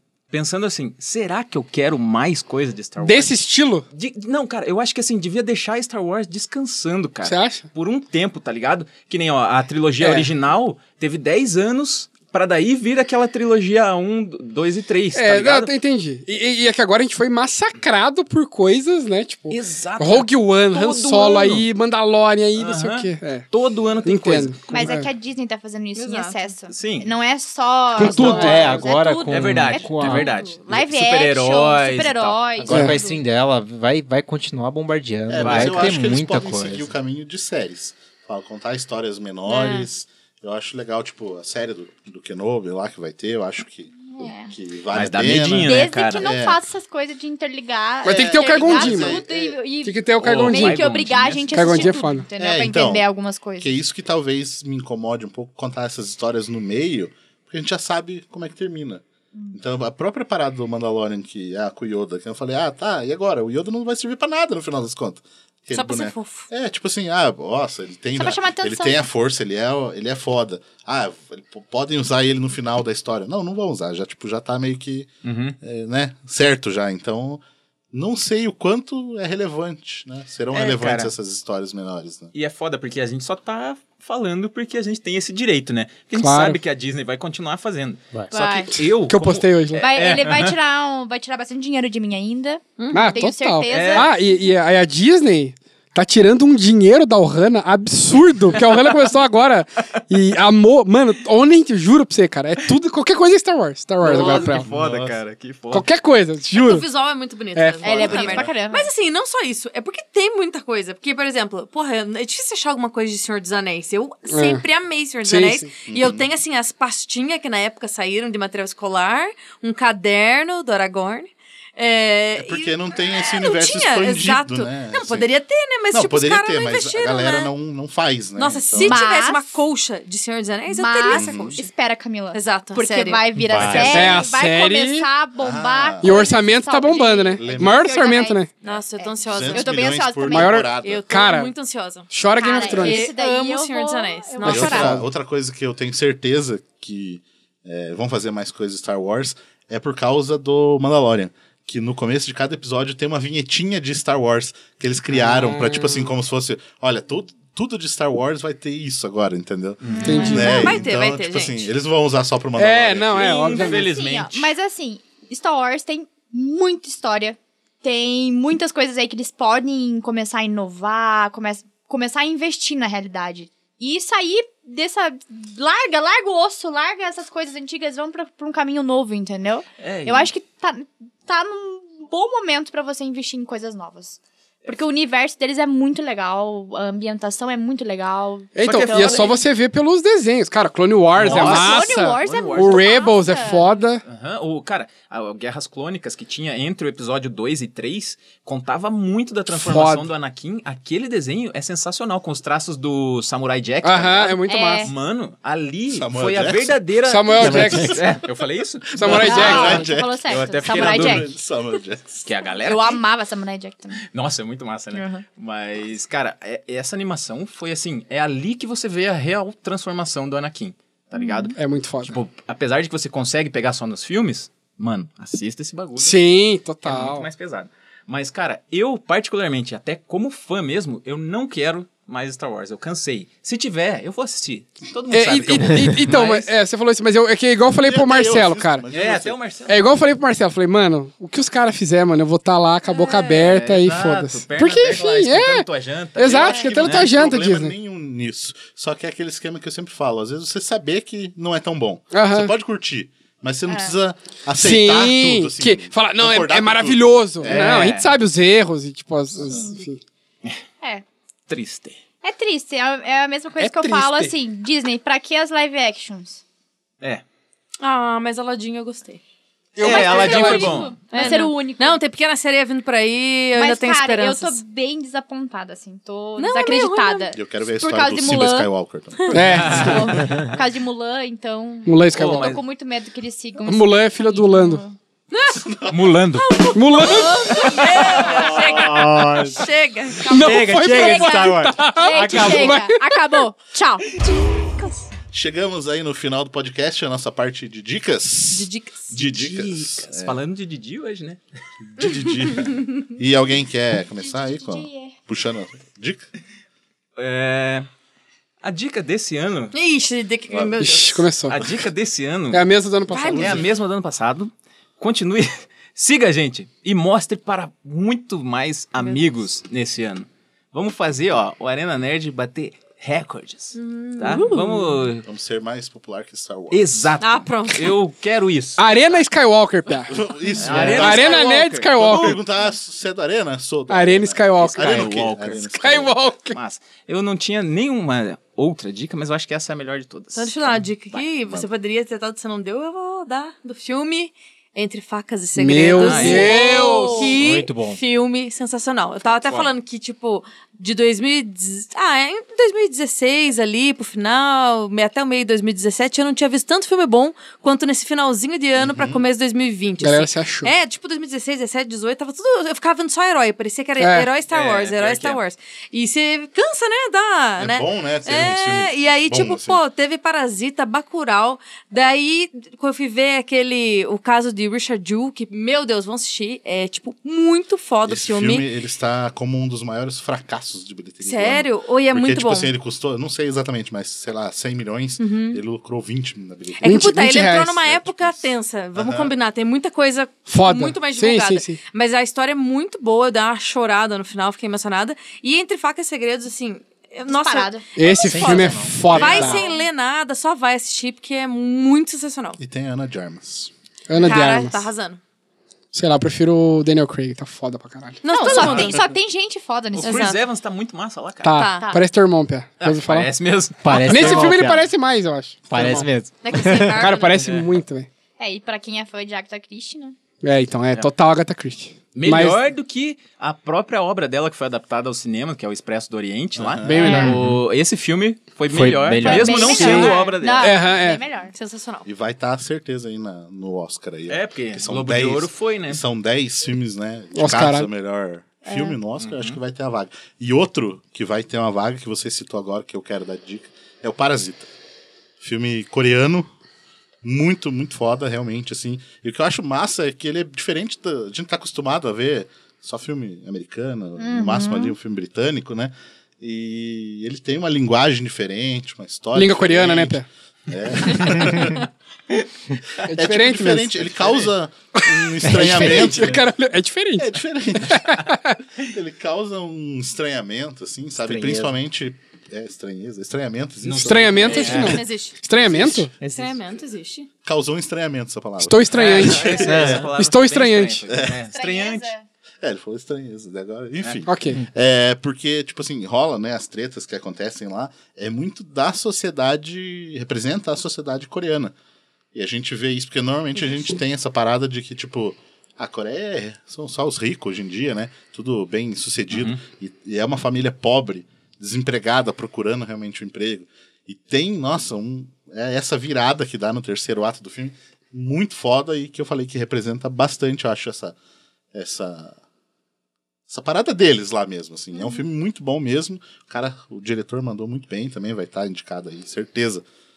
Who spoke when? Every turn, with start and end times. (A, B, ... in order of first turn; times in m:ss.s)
0:00.3-0:03.4 A
0:03.0-0:03.8 B
0:03.9-0:15.7 A
0:07.2-0:07.6 B
0:10.0-0:10.3 B
0:15.1-0:23.4 B
0:19.5-0:21.6 A
0:22.5-0:24.9 A
0:24.0-0:25.1 B
0:24.7-0:33.2 C
0:26.0-0:26.4 D
0:26.7-0:27.1 A
0:27.9-0:28.7 B
0:28.0-0:30.3 E
0:29.2-0:32.4 A
0:32.6-0:36.9 E
0:32.7-0:33.0 B
0:35.3-0:46.6 F
0:35.4-0:36.0 A
0:39.5-0:39.9 C
0:44.1-0:44.5 C
0:44.9-0:46.3 A
0:45.6-0:53.7 C
0:48.0-0:49.2 B
0:48.0-0:49.6 F
0:49.8-0:50.8 B
0:50.2-0:51.9 A
0:51.5-0:52.2 B
0:52.4-0:53.1 F
0:53.6-1:15.1 F
1:05.7-1:06.5 D
1:08.2-1:09.0 C
1:15.2-1:15.6 A
1:15.6-1:22.3 F
1:20.5-1:21.1 A
1:22.3-1:30.6 A
1:26.1-1:26.6 B
1:28.3-1:28.7 C
1:29.1-1:29.8 B
1:29.8-1:34.1 C
1:32.8-1:33.1 D
1:32.9-1:44.6 B
1:33.7-1:34.1 A
1:44.0-1:45.9 A
1:44.3-1:45.2 F
1:45.7-1:46.8 B
1:46.5-2:07.5 D
1:47.5-1:47.8 B
1:47.8-1:48.9 C
1:48.0-1:48.4 F
1:54.3-1:54.6 B
1:55.2-1:55.7 B
1:55.9-1:56.3 F
2:02.4-2:05.3 F
2:05.9-2:09.0 F
2:08.4-2:11.7 D
2:08.8-2:09.6 C
2:10.7-2:20.7 C
2:11.1-2:11.6 F
2:12.3-2:13.2 D
2:13.4-2:14.1 A
2:13.4-2:13.9 F
2:13.9-2:15.1 B
2:15.4-2:16.2 F
2:16.0-2:18.5 B
2:17.4-2:17.8 F
2:18.6-2:19.8 D
2:19.2-2:21.1 F
2:20.3-2:21.5 B
2:20.8-2:22.1 D
2:22.1-2:23.1 B
2:22.4-2:25.0 C
2:22.6-2:24.9 D
2:24.4-2:43.7 F
2:24.4-2:25.0 B
2:35.2-2:36.1 B
2:39.8-2:40.3 A
2:39.9-2:40.7 C
2:40.0-2:40.6 B
2:40.1-2:41.7 D
2:42.6-2:43.9 B
2:43.2-2:44.5 A
2:43.6-3:09.3 C
2:59.8-3:00.3 A
3:08.6-3:14.0 B
3:08.6-3:09.4 A
3:11.2-3:13.0 A
3:11.2-3:13.7 C
3:14.0-3:31.3 A
3:19.5-3:20.1 B
3:23.8-3:24.9 B
3:24.5-3:24.9 C
3:25.9-3:26.8 F
3:27.1-3:28.0 B
3:27.4-3:28.2 E
3:27.6-3:28.2 F
3:29.0-3:29.8 B
3:29.0-3:32.2 F
3:29.1-3:31.3 C
3:32.2-3:33.0 A
3:32.6-3:34.0 C
3:34.0-3:46.2 A
3:34.9-3:35.2 C
3:41.2-3:41.5 C
3:41.6-3:42.2 B
3:46.0-3:47.3 B
3:46.8-3:56.5 A
3:55.1-3:58.8 B
3:57.8-3:59.4 F
3:58.9-3:59.8 A
3:59.7-4:05.6 B
4:03.3-4:07.1 A
4:06.2-4:07.7 B
4:06.3-4:18.0 F
4:06.4-4:06.7 C
4:12.1-4:12.5 B
4:13.7-4:13.9 C
4:14.6-4:20.0 B
4:17.4-4:18.1 A
4:21.5-4:22.0 A
4:22.2-4:26.4 C
4:23.6-4:24.3 B
4:27.8-4:29.2 D
4:29.8-4:30.9 B
4:29.8-4:32.0 C
4:29.8-4:31.1 A
4:29.9-4:30.6 D
4:31.1-4:34.6 D
4:33.6-4:38.7 C
4:36.4-4:37.3 D
4:37.3-4:39.9 F
4:39.3-4:40.1 B
4:39.5-4:40.2 A
4:39.7-4:45.0 C
4:41.8-4:42.5 B
4:42.1-4:42.6 A
4:43.6-4:44.8 B
4:45.3-4:45.6 D
4:45.5-4:46.0 F
4:45.9-4:46.7 A
4:46.4-4:51.6 D
4:46.7-4:47.7 B
4:47.2-4:48.2 C
4:48.8-4:49.6 E
4:50.3-4:53.3 B
4:50.3-4:52.8 E
4:52.0-4:54.2 C
4:55.3-5:00.4 F
4:58.5-4:59.2 D
4:59.1-5:01.4 A
5:02.0-5:06.2 F
5:04.2-5:05.1 C
5:07.2-5:07.9 A
5:08.6-5:09.7 A
5:09.7-5:11.3 D
5:10.8-5:11.6 B
5:11.5-5:12.6 A
5:12.5-5:13.6 B
5:13.1-5:13.5 D
5:13.3-5:25.2 A
5:13.4-5:13.7 F
5:19.0-5:19.2 D
5:23.7-5:24.9 D
5:25.2-5:27.2 F
5:26.7-5:28.8 A
5:27.2-5:28.0 D
5:28.8-5:30.2 B
5:30.1-5:36.2 F
5:30.6-5:32.4 A
5:30.8-5:32.4 B
5:33.9-5:35.1 B
5:34.6-5:35.6 A
5:35.8-5:36.6 B
5:36.5-5:41.2 A
5:40.3-6:18.6 D
5:45.6-5:47.3 B
5:46.0-5:46.6 A
5:46.2-5:47.4 C
5:47.4-5:48.0 E
5:49.3-5:49.7 A
5:58.8-5:59.2 F
6:00.0-6:00.7 B
6:04.0-6:04.3 B
6:04.5-6:05.4 A
6:07.6-6:09.8 F
6:18.0-6:27.0 F
6:21.2-6:22.7 D
6:25.2-6:25.6 D
6:26.7-6:42.6 D
6:26.8-6:27.7 B
6:27.8-6:29.3 F
6:30.5-6:31.8 B
6:37.3-6:37.8 C
6:38.0-6:39.6 B
6:38.3-6:39.0 E
6:39.1-6:39.8 F
6:42.6-6:44.3 F
6:44.1-6:44.8 B
6:44.1-6:45.2 D
6:45.9-6:48.2 B
6:48.2-6:49.0 D
6:48.3-6:50.3 C
6:48.4-6:49.0 A
6:49.9-6:51.6 A
6:50.0-6:50.4 D
6:51.4-6:53.3 B
6:51.5-6:51.9 D
6:52.8-6:54.6 A
6:53.8-6:54.9 E
6:53.9-6:56.0 B
6:55.7-6:57.1 E
6:56.4-6:57.5 D
6:56.9-6:58.1 B
6:57.4-6:57.6 A
6:58.4-7:00.2 C
7:00.4-7:02.6 B
7:02.1-7:10.7 A
7:06.5-7:07.1 F
7:06.8-7:07.4 B
7:07.0-7:07.3 C
7:08.7-7:10.1 E
7:09.2-7:11.5 C
7:09.6-7:10.3 D
7:10.6-7:11.2 B
7:11.5-7:12.1 D
7:12.0-7:24.7 F
7:14.3-7:16.0 A
7:17.3-7:17.9 B
7:18.7-7:19.0 C
7:19.2-7:19.6 A
7:25.4-7:26.5 F
7:27.2-7:41.8 F
7:34.2-7:34.9 C
7:39.3-7:40.2 B
7:43.0-7:46.4 F
7:43.1-7:44.1 B
7:44.2-7:44.4 A
7:45.0-7:48.6 B
7:45.6-7:46.3 E
7:47.2-7:48.2 F
7:48.8-7:55.0 F
7:51.3-7:51.7 E
7:53.8-7:55.0 A
7:54.0-7:56.1 B
7:54.4-7:55.4 D
7:55.6-7:56.1 F
7:56.2-7:56.6 E
7:56.3-7:57.3 D
7:57.4-8:00.0 F
7:58.6-8:01.0 B
7:58.9-8:02.1 A
7:59.6-8:00.1 E
8:01.1-8:01.4 F
8:01.5-8:02.2 C
8:02.6-8:11.7 F
8:04.3-8:04.6 B
8:12.3-8:31.2 F
8:19.3-8:19.6 A
8:31.7-8:32.4 F
8:33.5-8:39.8 F
8:34.9-8:35.2 C